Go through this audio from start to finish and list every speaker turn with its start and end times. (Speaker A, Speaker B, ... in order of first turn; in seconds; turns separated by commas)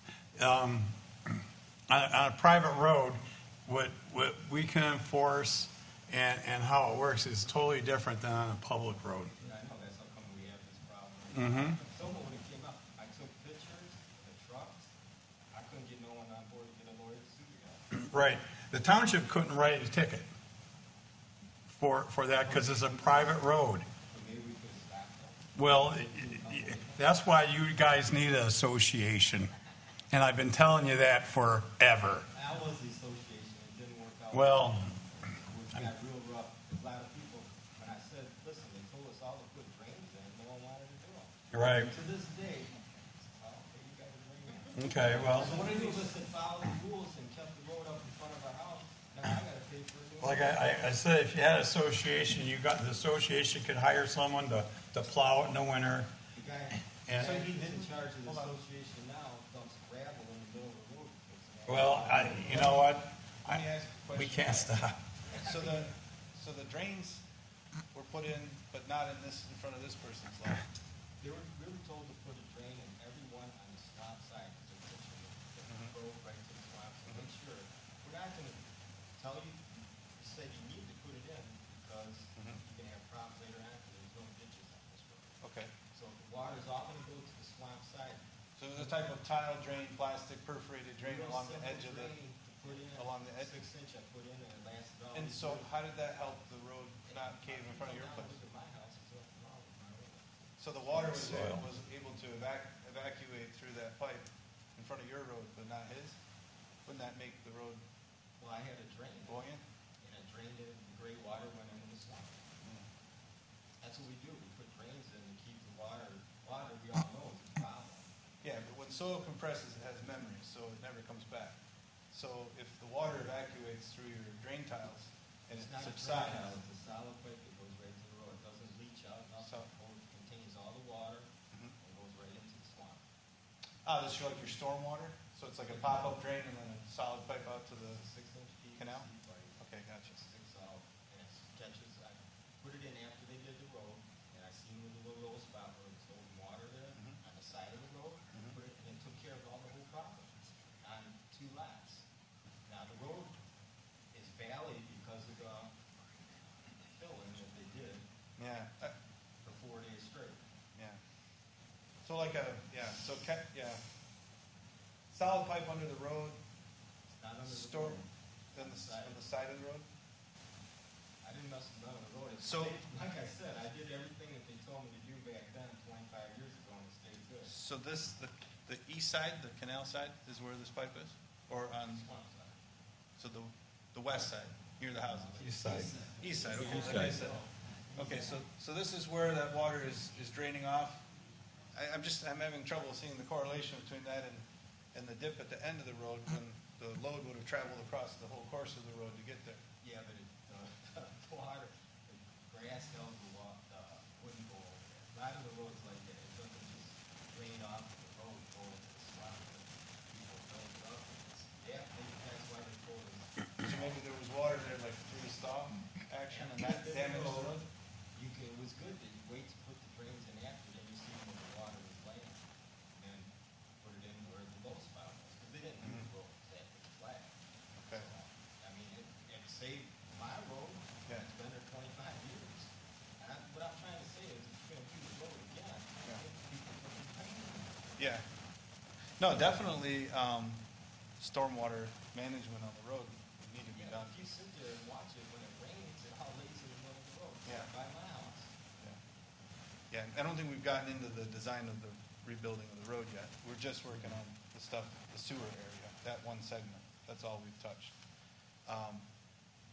Speaker A: 0.3-0.9, Speaker A: 1.9-9.3, Speaker B: 9.4-14.9, Speaker A: 11.3-11.8, Speaker B: 15.5-17.8, Speaker A: 17.9-20.2, Speaker A: 21.7-23.9, Speaker B: 22.4-23.5, Speaker B: 24.1-27.1, Speaker A: 25.5-29.5, Speaker A: 30.1-32.3, Speaker B: 32.3-50.7, Speaker A: 34.3-34.9, Speaker A: 41.5-41.9, Speaker A: 44.7-45.9, Speaker C: 45.5-45.9, Speaker A: 50.2-56.1, Speaker B: 56.3-62.8, Speaker A: 57.0-57.4, Speaker C: 57.1-58.6, Speaker A: 61.7-65.0, Speaker C: 62.2-62.9, Speaker C: 63.4-64.8, Speaker B: 65.2-65.9, Speaker C: 65.4-67.2, Speaker C: 67.9-70.6, Speaker B: 71.2-85.4, Speaker C: 75.7-76.0, Speaker C: 85.4-85.7, Speaker B: 85.9-88.2, Speaker C: 88.6-92.1, Speaker B: 91.0-95.7, Speaker C: 92.9-93.5, Speaker C: 95.1-98.4, Speaker B: 97.0-100.6, Speaker C: 100.6-106.2, Speaker A: 100.9-101.6, Speaker C: 106.8-107.8, Speaker B: 108.4-109.5, Speaker C: 109.3-109.6, Speaker B: 110.0-112.5, Speaker C: 112.6-112.9, Speaker B: 113.8-118.1, Speaker C: 118.4-121.6, Speaker C: 122.1-126.6, Speaker B: 125.5-133.0, Speaker C: 129.4-129.7, Speaker C: 133.8-138.0, Speaker B: 135.7-136.2, Speaker B: 137.9-152.1, Speaker C: 138.8-139.1, Speaker C: 139.6-140.2, Speaker B: 152.7-153.4, Speaker B: 154.1-155.7, Speaker B: 156.7-158.0, Speaker C: 158.4-158.9, Speaker B: 159.4-160.4, Speaker C: 162.0-163.8, Speaker C: 165.1-166.4, Speaker B: 167.1-169.2, Speaker C: 167.4-168.0, Speaker C: 168.5-169.9, Speaker B: 171.2-177.5, Speaker C: 172.4-172.8, Speaker C: 177.4-182.0, Speaker B: 181.9-182.6, Speaker C: 183.2-187.4, Speaker B: 185.1-188.4, Speaker A: 185.4-185.9, Speaker A: 186.6-187.2, Speaker C: 187.9-191.1, Speaker C: 191.7-199.6, Speaker B: 199.8-214.0, Speaker C: 213.6-217.6, Speaker B: 216.3-238.0, Speaker C: 225.8-226.1, Speaker C: 238.0-238.2, Speaker C: 239.2-240.6, Speaker C: 241.2-244.3, Speaker B: 243.7-248.5, Speaker C: 247.4-247.7, Speaker C: 249.9-257.9, Speaker C: 258.6-259.1